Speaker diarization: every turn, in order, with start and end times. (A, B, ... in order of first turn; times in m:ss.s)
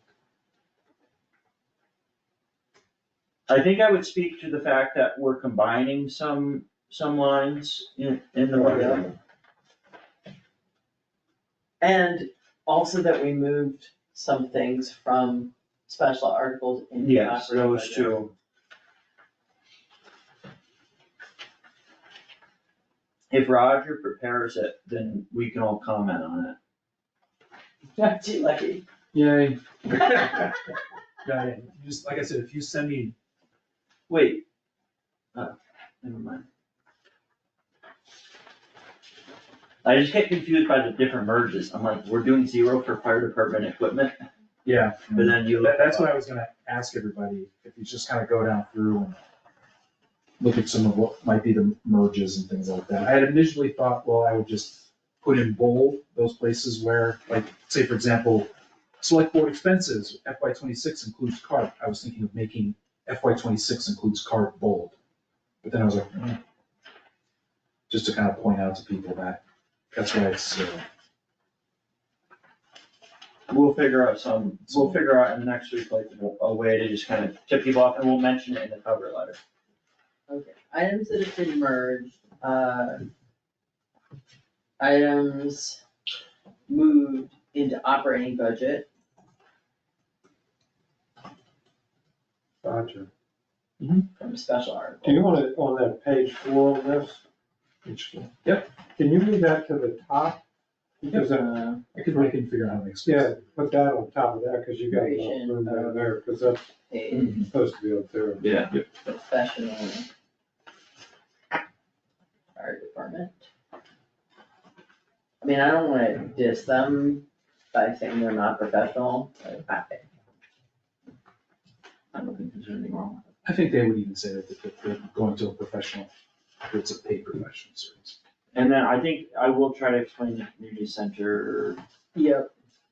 0:03.5-0:09.1 A
0:08.5-0:09.1 B
0:11.8-0:18.3 B
0:17.0-0:18.3 A
0:23.3-0:26.6 A
0:28.0-0:28.8 B
0:29.1-0:30.6 C
0:31.2-0:33.2 C
0:34.1-0:34.4 A
0:35.3-0:36.4 A
0:39.8-0:44.2 A
0:44.6-0:49.2 C
0:45.1-0:46.2 A
0:50.4-1:05.0 C
1:05.6-1:06.4 C
1:07.9-1:10.8 C
1:13.5-1:19.4 A
1:14.7-1:15.0 C
1:20.3-1:23.0 B
1:24.8-1:25.8 B
1:26.7-1:28.9 B
1:32.6-1:33.1 D
1:33.8-1:34.0 C
1:34.2-1:35.3 B
1:35.0-1:37.2 D
1:37.9-1:38.2 D
1:37.9-1:38.7 C
1:39.0-1:40.4 D
1:41.0-1:41.6 D
1:41.3-1:41.8 B
1:41.9-1:43.3 C
1:42.1-1:42.4 D
1:43.0-1:46.7 D
1:44.9-1:46.2 B
1:46.9-1:47.5 B
1:47.1-1:47.4 A
1:47.4-1:48.4 D
1:48.4-1:48.7 A
1:49.0-1:50.1 B
1:52.6-1:53.5 B
1:55.4-2:00.0 B
2:02.1-2:03.2 A
2:03.4-2:06.1 C
2:06.6-2:08.2 C
2:08.5-2:11.8 A
2:12.2-2:12.5 B